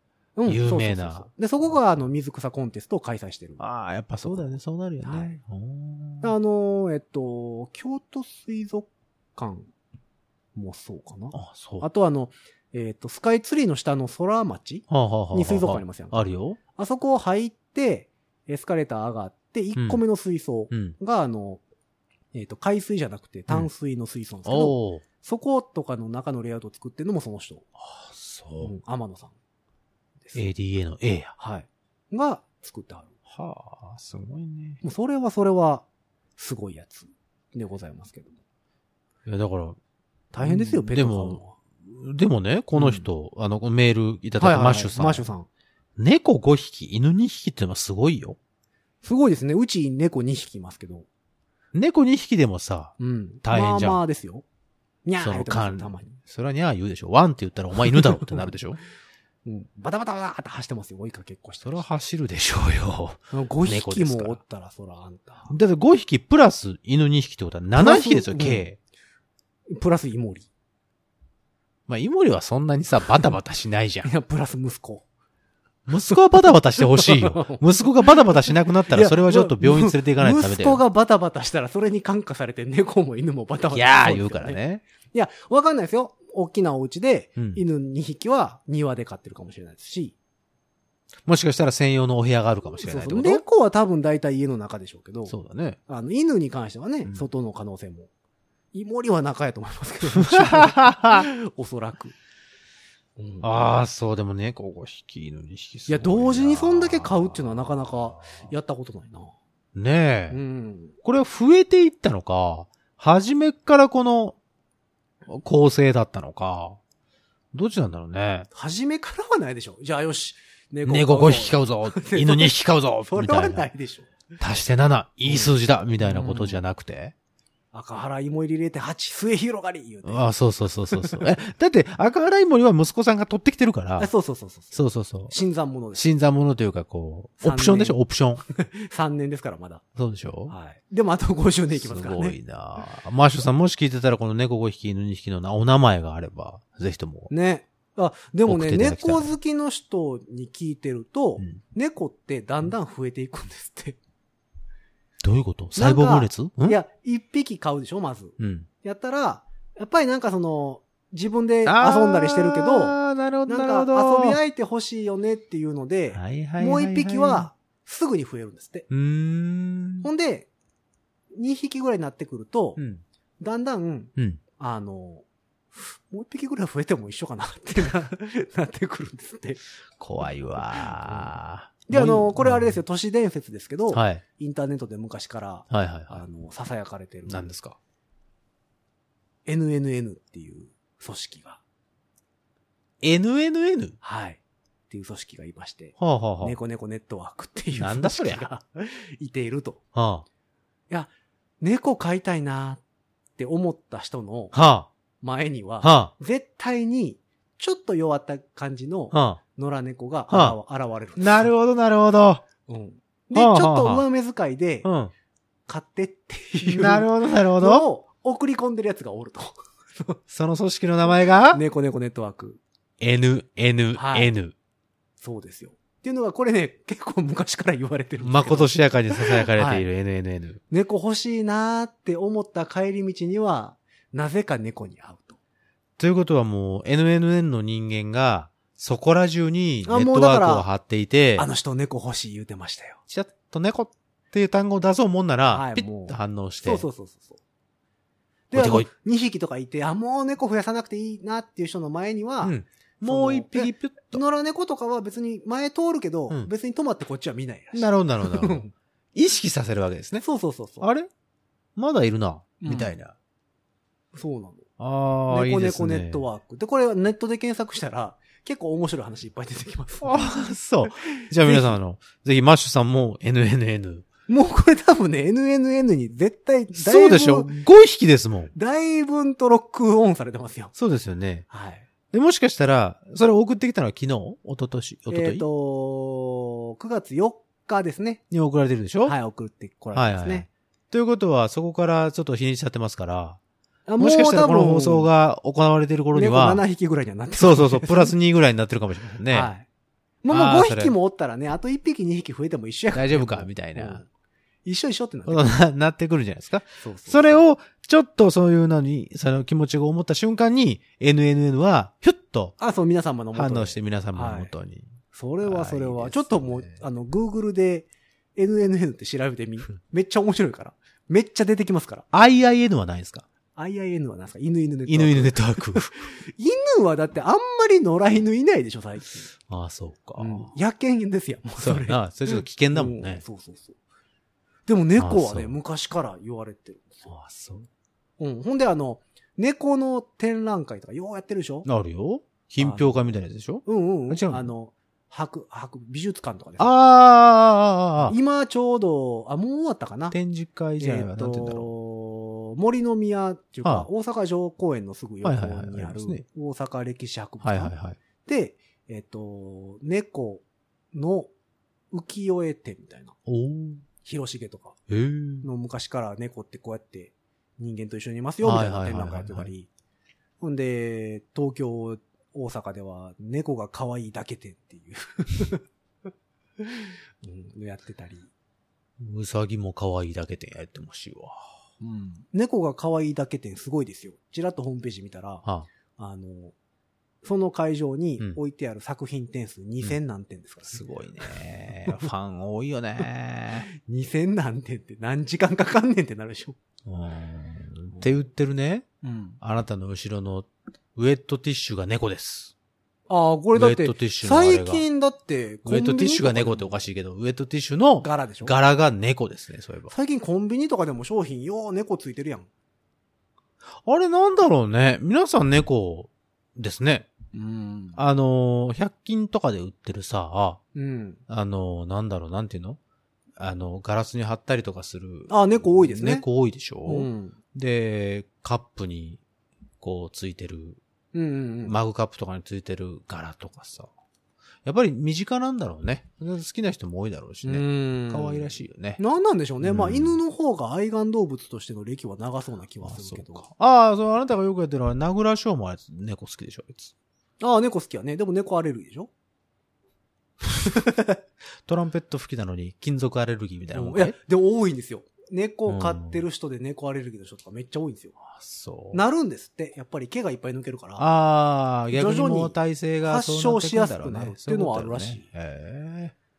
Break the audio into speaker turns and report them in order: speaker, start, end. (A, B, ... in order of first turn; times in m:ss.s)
0:00.4-0:03.6 A
0:00.5-0:01.7 B
0:03.6-0:06.4 B
0:04.2-0:05.4 A
0:06.2-0:09.7 A
0:10.6-0:21.6 A
0:11.3-0:11.9 B
0:14.9-0:16.6 B
0:22.3-0:27.7 A
0:24.4-0:25.0 B
0:27.8-0:28.7 B
0:28.6-0:29.4 A
0:30.2-0:30.5 A
0:30.3-0:31.3 B
0:31.4-0:33.1 A
0:33.3-0:34.8 B
0:34.8-0:35.9 A
0:36.4-0:38.4 A
0:39.3-0:39.8 B
0:40.3-0:41.6 A
0:40.4-0:45.3 B
0:42.8-0:43.1 A
0:44.4-0:45.5 A
0:46.0-0:48.4 B
0:49.0-0:51.1 A
0:51.7-0:54.0 B
0:53.0-0:54.4 A
0:55.0-0:56.2 A
0:55.2-0:58.8 B
0:59.4-1:01.8 A
1:01.6-1:04.4 B
1:03.3-1:05.5 A
1:05.5-1:08.8 B
1:07.8-1:08.6 A
1:09.7-1:10.5 A
1:11.9-1:14.1 B
1:14.0-1:15.0 A
1:15.9-1:20.8 B
1:16.8-1:17.6 A
1:18.9-1:24.6 A
1:23.7-1:24.8 B
1:25.1-1:30.2 A
1:27.4-1:27.6 B
1:31.2-1:33.4 B
1:32.8-1:35.4 A
1:35.3-1:35.8 B
1:35.9-1:38.1 A
1:38.7-1:42.2 A
1:40.2-1:41.3 B
1:43.2-1:43.5 A
1:43.4-1:48.3 B
1:45.9-1:49.3 A
1:49.8-1:50.4 B
1:50.3-1:51.0 A
1:51.0-1:54.4 B
1:55.3-1:56.8 B
1:57.5-1:58.5 B
1:58.5-2:04.1 A
2:00.9-2:03.7 B
2:04.4-2:07.1 B
2:05.3-2:06.6 A
2:07.7-2:10.3 A
2:10.0-2:14.1 B
2:10.9-2:11.2 A
2:14.0-2:16.1 A
2:14.7-2:15.3 B
2:16.0-2:18.4 B
2:17.4-2:19.8 A
2:20.0-2:20.5 B
2:20.5-2:22.4 A
2:21.7-2:27.3 B
2:27.3-2:34.0 A
2:28.5-2:29.3 B
2:35.2-2:36.8 B
2:35.8-2:48.9 A
2:38.4-2:38.7 B
2:41.6-2:44.4 B
2:46.1-2:47.5 B
2:48.9-2:50.1 B
2:50.0-2:50.5 A
2:51.3-2:52.8 A
2:52.8-2:53.0 B
2:53.4-2:59.6 A
3:00.0-3:02.8 B
3:00.7-3:01.3 A
3:01.9-3:07.5 A
3:03.9-3:04.2 B
3:05.7-3:06.2 B
3:07.3-3:07.8 B
3:09.5-3:11.6 A
3:13.0-3:14.0 B
3:14.0-3:19.8 A
3:16.0-3:16.6 B
3:17.8-3:18.4 B
3:20.0-3:20.2 B
3:21.6-3:22.8 A
3:23.4-3:24.6 A
3:24.5-3:24.9 B
3:25.2-3:31.5 A
3:25.8-3:26.1 B
3:29.1-3:29.4 B
3:30.3-3:30.6 B
3:31.2-3:32.4 B
3:32.7-3:34.9 A
3:33.3-3:34.0 B
3:34.8-3:35.1 B
3:35.7-3:40.2 A
3:36.6-3:37.9 B
3:40.3-3:41.6 B
3:41.5-3:42.6 A
3:43.0-3:44.5 B
3:44.0-3:44.3 A
3:45.2-3:49.9 A
3:48.2-3:50.6 B
3:50.7-3:55.4 A
3:56.0-4:01.5 B
3:59.9-4:00.7 A
4:01.4-4:03.0 A
4:03.1-4:06.8 B
4:05.5-4:07.4 A
4:08.5-4:18.7 A
4:08.5-4:08.9 B
4:12.4-4:14.2 B
4:17.7-4:18.6 B
4:19.2-4:20.2 B
4:20.2-4:20.9 A
4:20.8-4:21.1 B
4:21.8-4:23.1 B
4:22.6-4:22.9 A
4:24.1-4:24.7 A
4:24.8-4:26.2 B
4:25.3-4:31.7 A
4:30.0-4:34.1 B
4:34.3-4:37.5 A
4:36.8-4:38.5 B
4:38.5-4:40.7 A
4:40.8-4:41.5 B
4:41.5-4:41.9 A
4:42.1-4:45.4 B
4:45.1-4:48.2 A
4:48.3-4:49.2 B
4:49.0-4:50.5 A
4:49.9-4:53.4 B
4:53.9-4:55.1 A
4:54.0-4:56.6 B
4:56.1-4:58.1 A
4:57.4-4:59.5 B
4:59.3-4:59.7 A
5:00.2-5:04.1 A
5:00.3-5:01.0 B
5:02.9-5:04.0 B
5:04.6-5:05.6 A
5:05.3-5:12.6 B
5:06.8-5:07.4 A
5:12.6-5:14.5 A
5:13.3-5:16.8 B
5:15.1-5:22.1 A
5:22.1-5:23.2 B
5:23.6-5:29.3 A
5:24.9-5:25.9 B
5:29.5-5:30.5 B
5:30.2-5:33.8 A
5:31.6-5:33.2 B
5:34.7-5:37.1 A
5:35.0-5:35.6 B
5:37.1-5:37.7 B
5:38.2-5:41.7 A
5:41.6-5:44.5 B
5:42.6-5:43.0 A
5:43.7-5:46.7 A
5:46.6-5:48.2 B
5:48.0-5:50.2 A
5:50.1-5:51.7 B
5:50.8-5:57.7 A
5:55.2-5:56.2 B
5:57.4-5:58.0 B
5:58.2-6:01.3 A
6:01.9-6:03.2 A
6:03.3-6:03.8 B
6:04.0-6:04.8 A
6:04.9-6:05.4 B
6:05.4-6:09.7 A
6:08.4-6:09.5 B
6:10.4-6:15.6 A
6:16.6-6:18.3 A
6:19.0-6:21.4 B
6:21.8-6:25.4 A
6:26.0-6:26.5 A
6:27.2-6:30.8 A
6:30.7-6:33.7 B
6:33.8-6:36.6 A
6:36.9-6:38.9 B
6:39.0-6:39.4 A
6:39.4-6:42.5 B
6:43.1-6:46.7 A
6:43.5-6:44.8 B
6:45.7-6:49.9 B
6:48.0-6:48.5 A
6:49.9-6:52.5 A
6:53.8-6:57.1 B
6:57.3-6:58.0 A
6:58.0-7:00.6 B
7:00.8-7:01.2 A
7:01.3-7:02.8 B
7:03.4-7:09.2 B
7:05.3-7:06.3 A
7:06.9-7:07.4 A
7:09.8-7:10.8 B
7:11.1-7:11.8 A
7:11.7-7:13.9 B
7:14.6-7:19.0 B
7:17.4-7:23.5 A
7:19.6-7:20.2 B
7:22.8-7:26.9 B
7:27.4-7:29.1 A
7:30.7-7:31.1 A
7:31.6-7:34.2 B
7:33.7-7:38.2 A
7:35.7-7:36.2 B
7:38.3-7:39.0 B
7:38.9-7:41.1 A
7:41.0-7:46.1 B
7:41.9-7:45.2 A